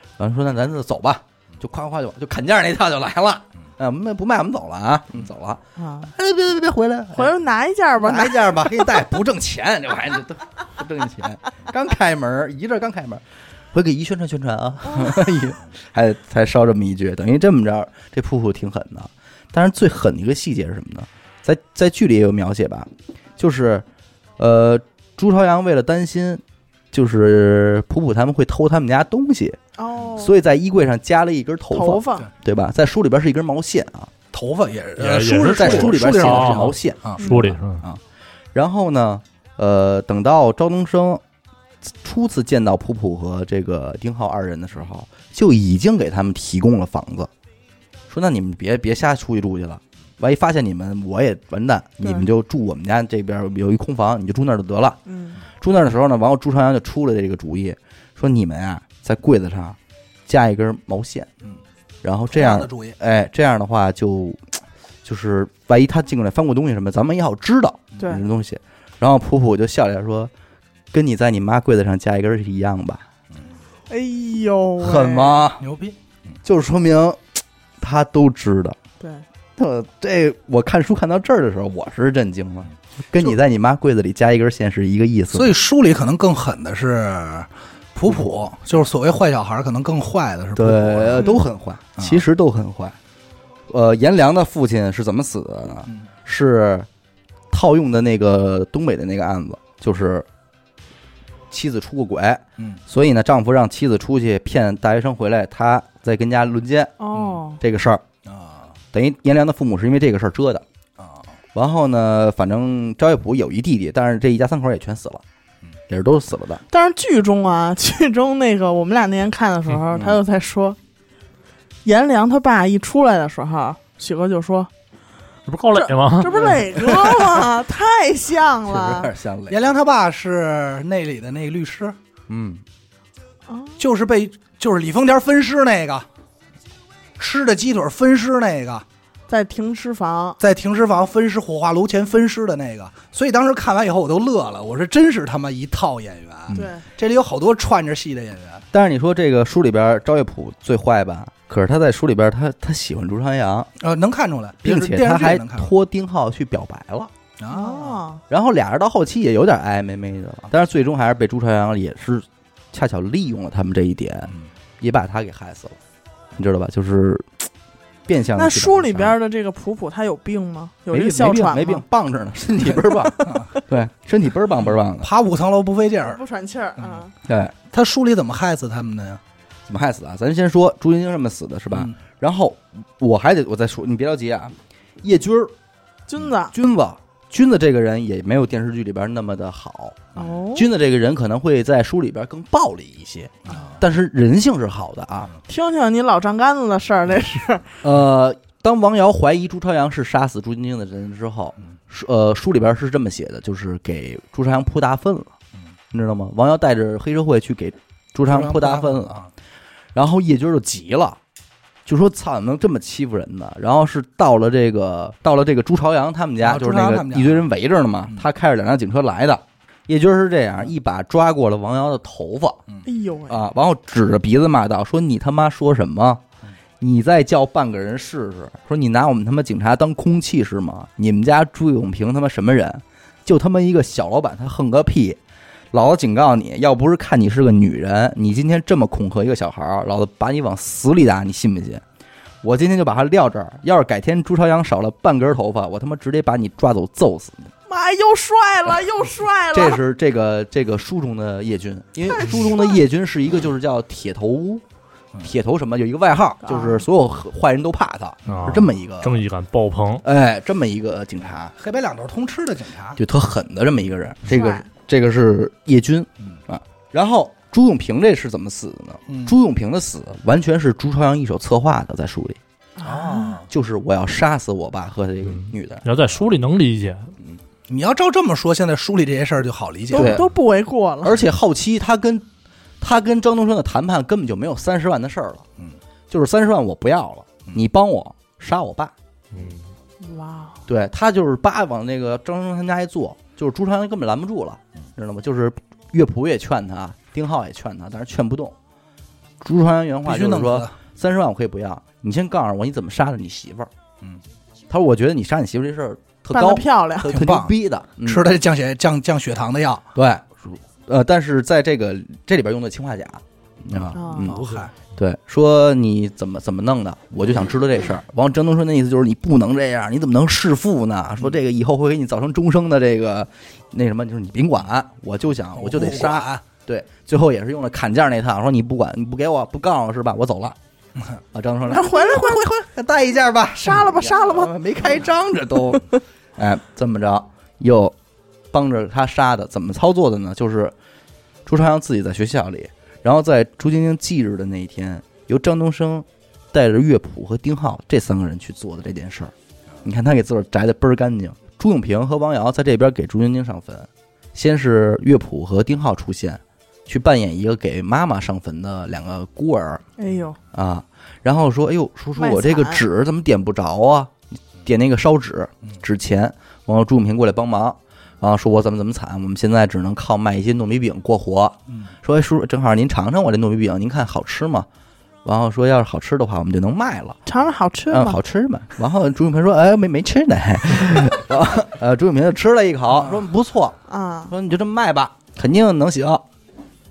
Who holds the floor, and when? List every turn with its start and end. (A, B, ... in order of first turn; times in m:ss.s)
0:00.2-0:07.3 A
0:05.8-0:06.1 B
0:07.1-0:08.9 B
0:08.0-0:23.8 A
0:24.4-0:29.6 A
0:29.8-0:30.3 B
0:30.2-0:34.1 A
0:31.7-0:32.3 B
0:34.3-0:37.3 C
0:35.0-0:37.8 D
0:35.2-0:38.0 A
0:38.5-0:41.2 A
0:42.0-0:47.3 A
0:48.1-0:55.0 A
0:55.1-0:55.4 B
0:55.6-0:59.8 A
1:00.3-1:01.3 A
1:02.0-1:10.3 A
1:02.3-1:03.0 C
1:08.0-1:08.2 B
1:10.9-1:13.0 A
1:13.9-1:15.4 B
1:14.8-1:15.6 A
1:15.6-1:16.0 C
1:16.4-1:17.2 A
1:17.8-1:18.8 A
1:19.6-1:25.5 A
1:25.3-1:31.4 C
1:30.6-1:33.0 A
1:32.0-1:32.2 C
1:33.7-1:36.9 A
1:37.5-1:40.3 A
1:41.5-1:48.0 A
1:47.0-1:47.6 B
1:48.2-1:48.8 C
1:48.9-1:50.6 A
1:51.0-1:51.3 C
1:51.6-1:55.2 A
1:55.9-1:56.6 A
1:56.7-2:00.8 B
1:59.9-2:00.2 A
2:01.8-2:04.7 B
2:05.5-2:06.6 D
2:05.7-2:09.1 B
2:08.7-2:09.7 A
2:09.5-2:12.0 C
2:12.3-2:12.6 A
2:13.5-2:13.8 B
2:13.8-2:16.1 C
2:17.2-2:18.8 C
2:19.3-2:20.4 B
2:20.4-2:28.7 C
2:26.5-2:26.8 B
2:28.7-2:33.7 A
2:33.8-2:35.7 C
2:34.6-2:37.1 A
2:37.4-2:38.0 C
2:37.5-2:38.2 B
2:38.3-2:45.8 A
2:46.4-2:47.5 A
2:48.1-2:49.2 A
2:48.4-2:51.8 B
2:50.9-2:55.1 A
2:54.9-2:56.2 C
2:56.0-2:57.1 B
2:57.2-2:57.5 A
2:57.7-2:59.2 C
2:59.7-3:05.5 A
3:06.1-3:06.5 B
3:06.5-3:15.3 A
3:10.2-3:10.7 B
3:13.5-3:13.8 C
3:15.5-3:17.7 B
3:17.8-3:25.3 A
3:25.9-3:29.2 A
3:28.3-3:29.3 C
3:30.0-3:31.2 A
3:31.9-3:42.6 A
3:36.4-3:37.5 C
3:42.9-3:43.4 B
3:43.3-3:46.2 A
3:46.8-3:55.2 A
3:55.7-4:01.8 A
4:02.4-4:07.5 A
4:07.7-4:09.8 B
4:09.5-4:14.6 A
4:12.1-4:12.8 B
4:15.2-4:19.2 A
4:16.4-4:16.8 B
4:18.3-4:20.0 D
4:20.0-4:21.5 A
4:21.6-4:23.0 C
4:23.0-4:32.4 A
4:24.3-4:24.6 B
4:29.1-4:29.4 C
4:32.8-4:33.4 B
4:32.8-4:33.5 C
4:33.5-4:35.8 A
4:35.3-4:37.1 D
4:37.7-4:40.2 C
4:39.9-4:41.2 B
4:39.9-4:40.3 A
4:41.0-4:42.2 A
4:42.8-4:45.5 A
4:46.1-4:48.9 A
4:49.3-4:49.6 D
4:50.0-4:50.6 B
4:50.7-4:58.6 A
4:59.4-5:03.7 A
5:00.0-5:00.7 C
5:04.7-5:08.3 A
5:06.3-5:07.2 B
5:07.1-5:09.9 C
5:10.0-5:30.6 A
5:13.7-5:14.7 C
5:13.9-5:14.4 B
5:25.5-5:26.4 C
5:31.3-5:37.9 A
5:31.7-5:32.5 B
5:33.6-5:34.5 B
5:38.5-5:40.7 A
5:41.5-5:49.3 A
5:49.8-5:59.8 A
6:00.0-6:00.4 B
6:00.5-6:04.1 A
6:02.2-6:02.8 B
6:04.6-6:14.7 A
6:15.2-6:17.2 A
6:17.3-6:18.2 B
6:17.9-6:26.2 A
6:23.9-6:24.3 B